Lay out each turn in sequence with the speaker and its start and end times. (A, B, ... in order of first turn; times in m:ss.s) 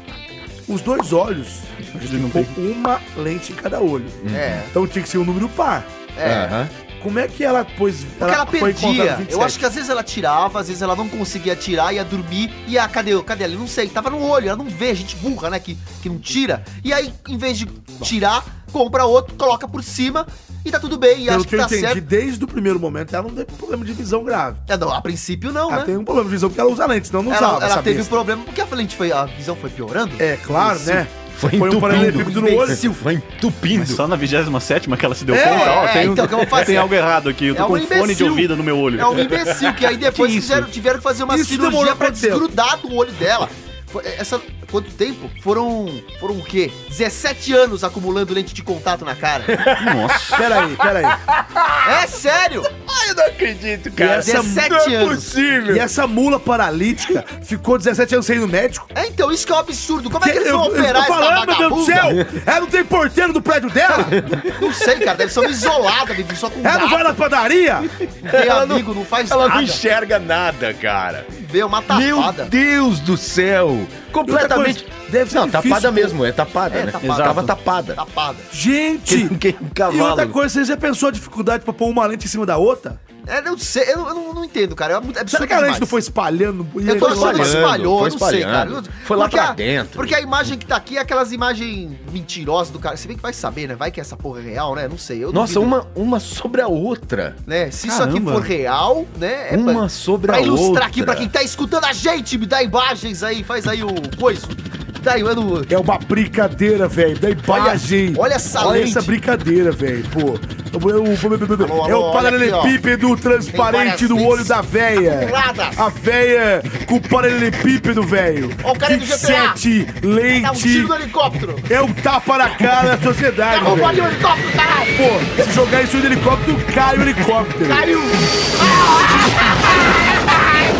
0:00.7-0:05.9 A
0:02.0-0:02.5 B
0:04.2-0:04.6 C
0:04.3-0:04.7 D
0:06.2-0:06.6 D
0:06.2-0:06.7 C
0:07.0-0:09.6 A
0:08.2-0:22.0 D
0:21.3-0:24.6 A
0:24.7-0:25.9 D
0:25.7-0:28.1 A
0:27.3-0:31.0 D
0:30.2-0:32.8 A
0:31.4-0:34.0 C
0:31.9-0:33.0 D
0:33.7-0:39.2 B
0:35.3-0:35.9 A
0:35.4-0:36.9 D
0:37.5-0:49.6 D
0:39.1-0:39.8 C
0:40.1-0:40.7 B
0:41.3-0:42.5 A
0:49.5-0:52.1 C
0:49.8-0:50.4 B
0:50.3-0:51.2 A
0:51.8-0:52.7 D
0:52.7-0:55.9 C
0:54.0-0:54.7 A
0:54.1-0:55.3 D
0:55.7-0:58.9 A
0:58.9-1:02.2 D
1:00.2-1:04.3 A
1:04.1-1:05.1 C
1:04.5-1:07.2 D
1:06.6-1:07.9 A
1:08.2-1:11.3 C
1:08.3-1:09.8 D
1:11.3-1:12.5 D
1:11.9-1:18.0 C
1:14.2-1:16.2 A
1:16.7-1:18.5 D
1:17.0-1:17.5 B
1:18.5-1:23.0 A
1:19.1-1:20.4 C
1:23.3-1:26.0 D
1:25.3-1:27.8 A
1:26.8-1:35.7 D
1:26.9-1:30.2 C
1:35.3-1:37.4 C
1:37.4-1:45.7 D
1:37.8-1:38.5 B
1:39.5-1:41.3 C
1:45.7-2:00.9 A
1:47.5-1:49.1 D
1:51.6-1:52.8 D
1:53.5-1:55.8 D
1:58.6-1:59.6 D
2:00.3-2:01.7 D
2:01.6-2:04.2 A
2:03.5-2:05.0 D
2:04.9-2:07.9 A
2:07.6-2:09.6 D